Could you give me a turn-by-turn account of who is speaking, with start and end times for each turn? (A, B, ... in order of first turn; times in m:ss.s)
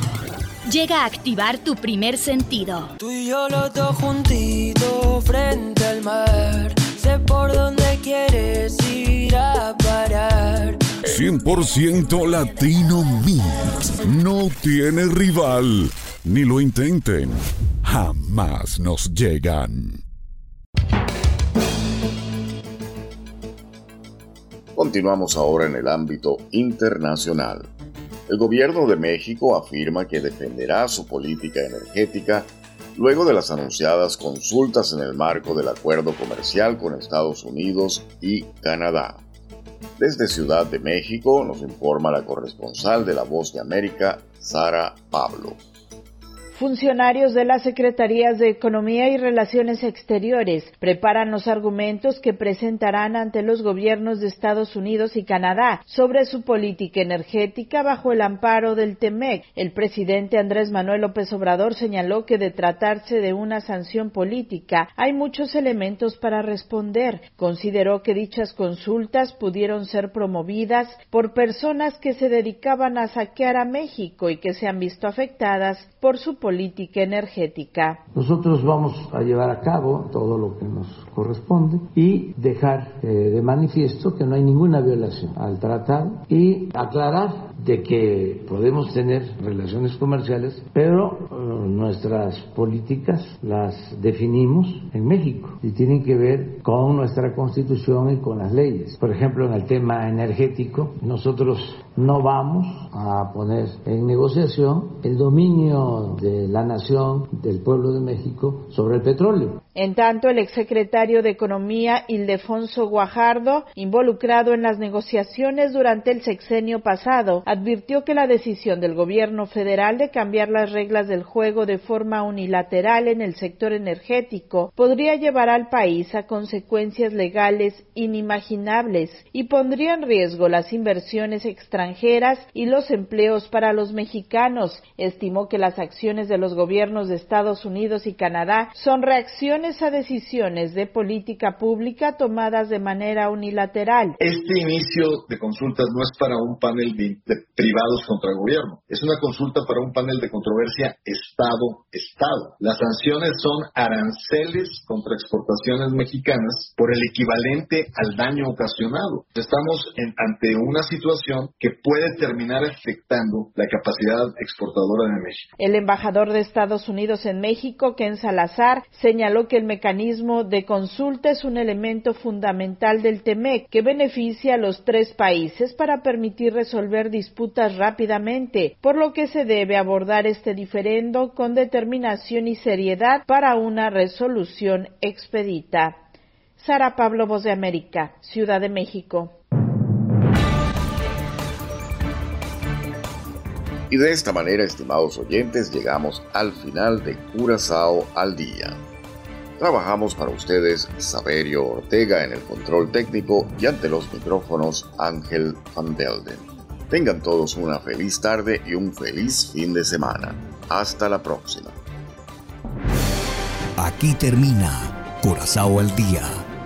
0:00.7-0:02.9 A
0:03.0-0:11.0 B
0:11.0-0:20.0 C
0:24.8-0:27.7 D
0:28.3-0:39.2 D
0:40.0-0:45.6 D
0:46.5-1:18.0 E
1:18.2-1:49.6 F
1:49.8-2:24.2 E
2:24.2-2:45.5 G
2:45.6-3:05.9 E
3:06.6-3:09.3 E
3:13.9-3:18.8 D
3:19.6-3:31.8 D
3:33.8-3:36.3 H